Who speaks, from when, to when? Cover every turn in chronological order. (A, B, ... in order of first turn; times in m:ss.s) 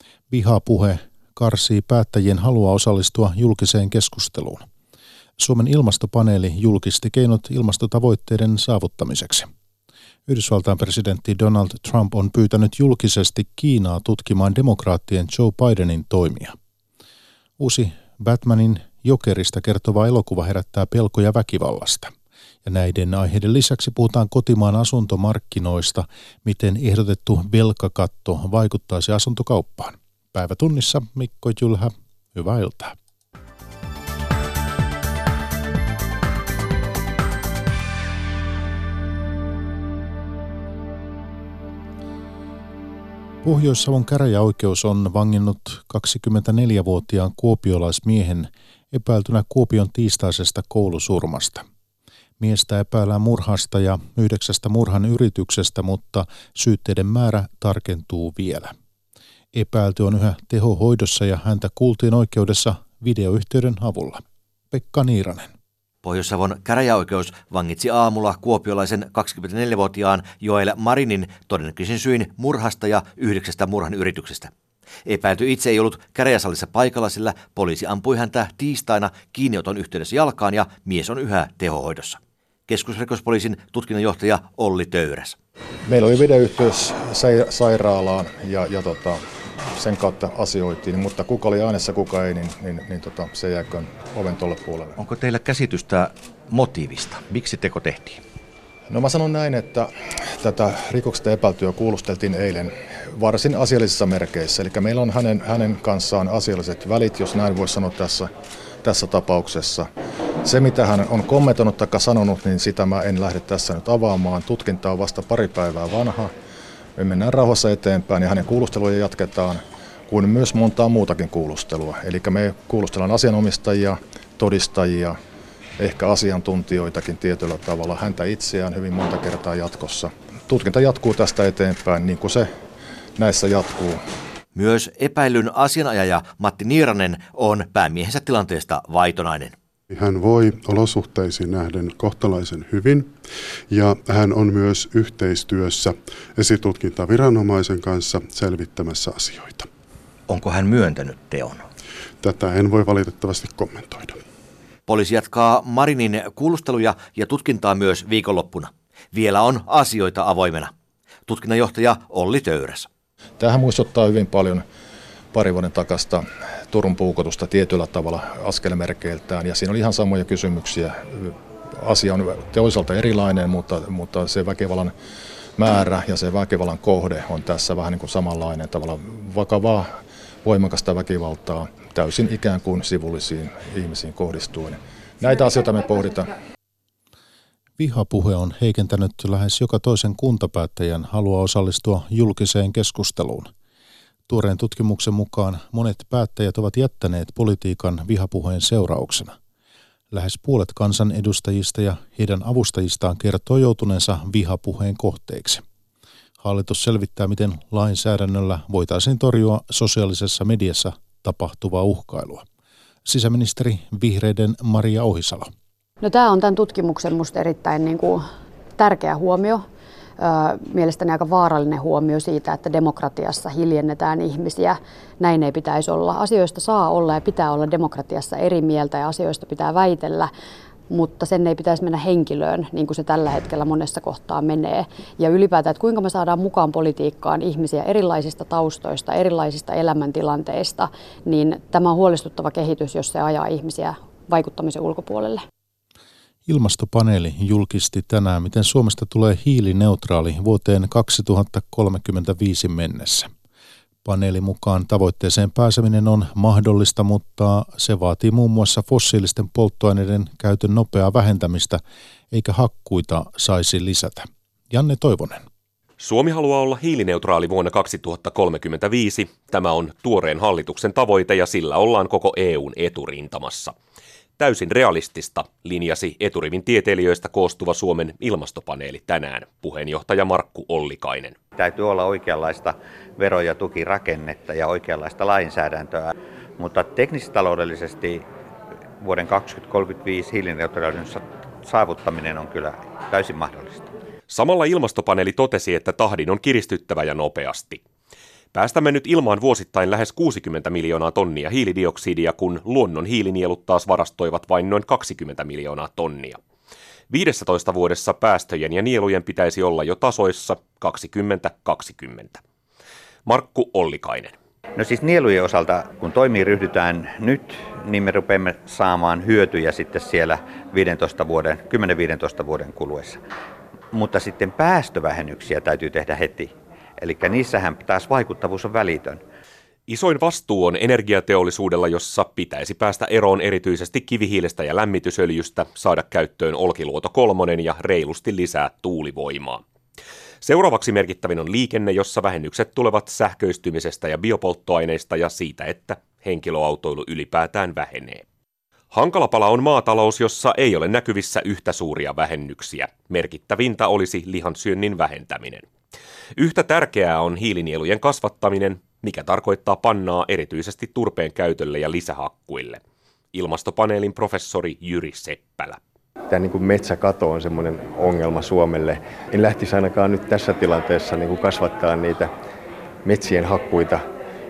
0:00.3-0:04.7 A
0:05.4-0:09.5 A
0:10.3-0:16.6 A
0:17.6-0:22.1 A
0:22.6-0:33.0 A
0:43.4-0:51.6 A
0:52.4-0:58.7 A
0:59.5-1:05.5 A
1:06.0-1:14.5 B
1:15.1-1:25.4 B
1:25.9-1:35.0 C
1:35.0-1:38.2 B
1:38.9-1:48.3 C
1:48.8-1:49.9 C
1:50.4-1:56.3 C
1:57.0-2:05.2 C
2:05.8-2:12.5 C
2:13.2-2:14.0 C
2:14.6-2:19.6 B
2:19.9-2:23.2 D
2:23.7-2:29.7 D
2:30.3-2:31.7 B
2:32.2-2:34.2 D
2:34.9-2:40.7 B
2:41.3-2:42.9 B
2:43.4-2:44.6 C
2:45.3-2:54.9 C
2:55.6-2:59.9 C
3:00.4-3:06.3 C
3:07.8-3:13.5 A
3:14.3-3:19.4 A
3:20.1-3:25.6 A
3:26.4-3:32.4 A
3:33.0-3:35.5 A
3:36.0-3:38.2 E
3:38.8-3:39.6 E
3:40.2-3:50.3 E
3:50.9-4:05.4 E
4:06.5-4:13.3 A
4:14.0-4:25.4 A
4:26.0-4:33.8 F
4:34.4-4:41.4 F
4:41.6-4:46.0 G
4:46.6-4:48.2 G
4:49.0-4:53.9 G
4:54.3-4:57.8 F
4:58.5-5:06.4 F
5:07.1-5:12.4 F
5:13.3-5:14.4 F
5:14.8-5:23.2 G
5:23.9-5:26.5 G
5:27.0-5:29.2 G
5:29.9-5:39.6 F
5:40.4-5:48.2 F
5:48.9-5:55.7 F
5:56.4-6:02.8 F
6:03.3-6:05.8 F
6:06.3-6:12.3 H
6:13.0-6:14.0 H